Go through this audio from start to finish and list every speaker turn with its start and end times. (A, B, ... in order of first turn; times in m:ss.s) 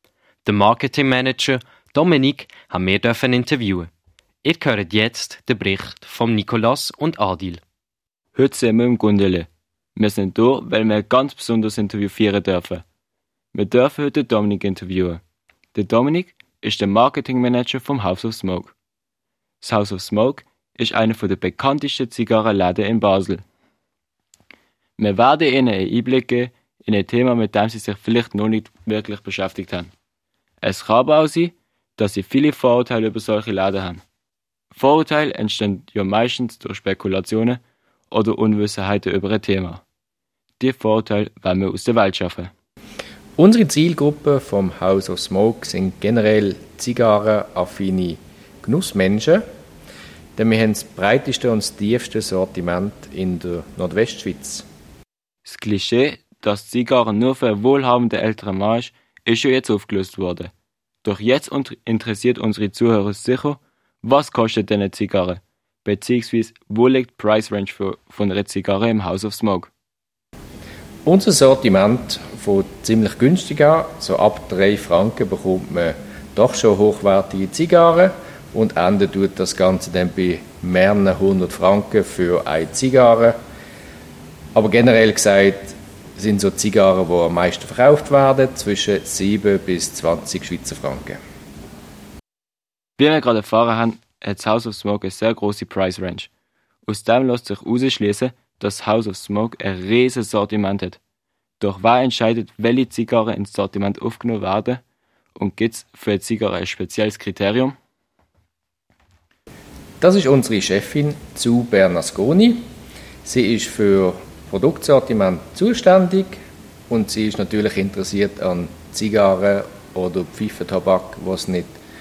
0:00.4-0:03.9 A
0:04.4-0:07.6 A
0:08.4-0:12.8 B
0:13.5-0:15.2 B
0:15.8-0:18.7 B
0:19.6-0:23.4 B
0:25.0-0:29.9 B
0:30.6-0:34.0 B
0:34.7-0:37.6 B
0:38.1-0:39.8 B
0:40.6-0:42.5 B
0:43.4-0:49.4 C
0:50.4-0:54.6 C
0:55.5-1:00.5 B
1:01.0-1:09.7 B
1:11.1-1:23.4 C
1:24.6-1:31.2 C
1:33.0-1:36.3 B
1:36.9-1:41.0 B
1:41.6-1:44.8 B
1:45.4-1:47.8 B
1:50.0-1:52.6 C
1:53.2-1:56.4 C
1:56.9-2:01.7 C